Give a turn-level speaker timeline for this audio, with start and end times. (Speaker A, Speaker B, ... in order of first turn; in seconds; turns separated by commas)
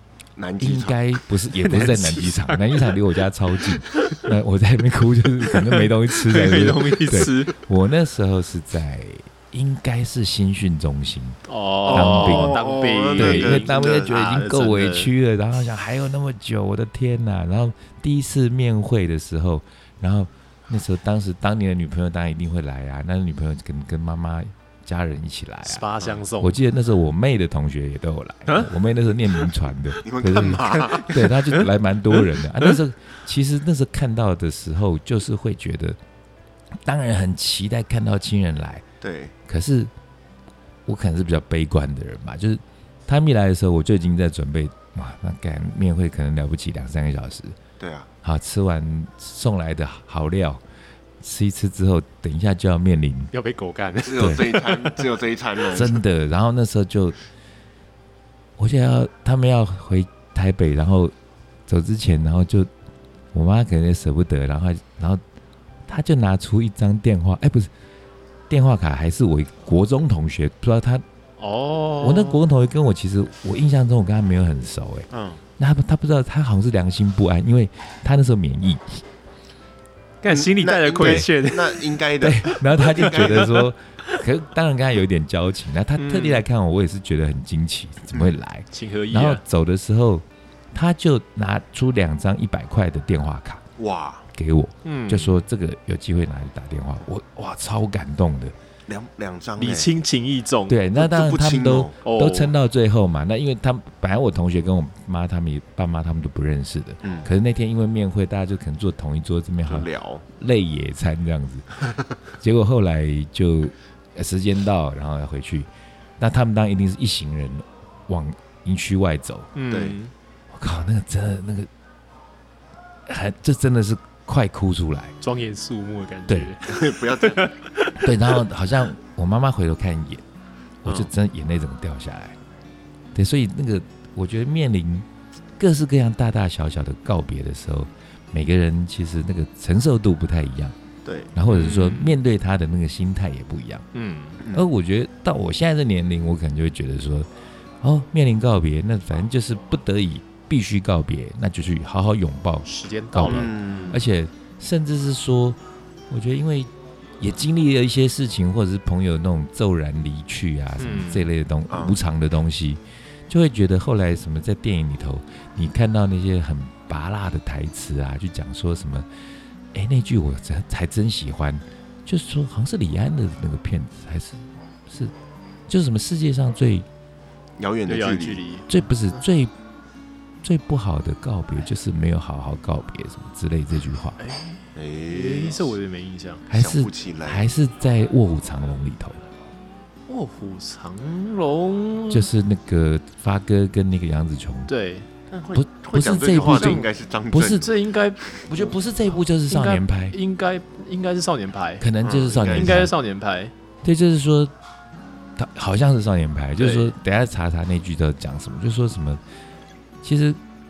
Speaker A: 0.4-1.0, Speaker B: 0.6-11.4, Speaker C: 1.6-3.0, Speaker C: 4.0-4.2, Speaker C: 5.5-7.6, Speaker C: 11.5-15.1, Speaker A: 11.9-14.1, Speaker B: 11.9-12.6, Speaker B: 13.2-25.9, Speaker C: 25.6-26.6, Speaker B: 26.4-36.0, Speaker A: 30.0-31.1, Speaker C: 30.8-31.7, Speaker C: 32.2-32.8, Speaker B: 36.8-38.9, Speaker A: 39.0-39.3, Speaker B: 39.5-39.9, Speaker B: 40.9-47.6, Speaker A: 47.8-48.1, Speaker B: 48.2-50.6, Speaker B: 51.2-53.3, Speaker C: 53.3-54.8, Speaker A: 54.0-56.0, Speaker B: 54.2-54.5, Speaker B: 55.7-57.2, Speaker B: 58.6-61.1, Speaker B: 61.7-62.7, Speaker B: 63.3-65.2, Speaker B: 65.9-67.7, Speaker B: 68.5-71.0, Speaker C: 71.4-72.4, Speaker B: 72.0-75.1, Speaker A: 75.1-75.4, Speaker B: 75.6-79.0, Speaker C: 80.2-82.0, Speaker A: 80.3-83.5, Speaker B: 81.0-81.3, Speaker B: 82.2-93.6, Speaker C: 83.0-84.2, Speaker C: 86.0-86.4, Speaker C: 88.7-89.4, Speaker A: 93.8-94.2, Speaker B: 94.3-98.5, Speaker C: 94.8-95.4, Speaker A: 98.9-99.9, Speaker C: 99.6-100.8, Speaker B: 100.7-119.5, Speaker A: 101.0-101.9, Speaker C: 102.0-102.5, Speaker A: 107.0-107.3, Speaker A: 109.7-110.2, Speaker C: 119.5-120.1, Speaker A: 119.7-120.0, Speaker B: 120.5-121.7, Speaker B: 123.1-125.2, Speaker C: 125.2-128.3, Speaker B: 126.3-126.5, Speaker A: 126.6-127.5, Speaker B: 128.0-130.2, Speaker B: 130.8-132.4, Speaker B: 133.2-140.8, Speaker A: 141.1-141.3, Speaker B: 141.3-143.8, Speaker C: 141.5-142.2, Speaker C: 143.9-144.4, Speaker B: 144.5-147.3, Speaker B: 147.8-155.6, Speaker C: 152.7-153.9, Speaker A: 153.3-154.0, Speaker B: 156.1-169.1, Speaker C: 160.8-161.3, Speaker A: 161.7-162.0, Speaker B: 169.7-175.1, Speaker B: 175.7-176.9, Speaker A: 177.6-178.4, Speaker C: 177.9-178.7, Speaker B: 178.7-179.5, Speaker B: 180.4-184.2, Speaker C: 184.2-186.4, Speaker A: 184.8-185.7, Speaker A: 186.5-187.5, Speaker B: 186.5-189.3, Speaker C: 190.1-192.3, Speaker B: 192.1-194.7, Speaker C: 194.7-195.1, Speaker A: 195.3-197.7, Speaker B: 195.6-197.7, Speaker C: 196.3-196.9, Speaker C: 197.5-198.4, Speaker B: 198.5-200.2, Speaker C: 199.5-201.9, Speaker B: 201.8-202.9, Speaker A: 202.0-202.9, Speaker C: 202.5-203.5, Speaker B: 203.8-204.5, Speaker B: 205.4-209.2, Speaker C: 206.6-206.9, Speaker B: 210.0-210.4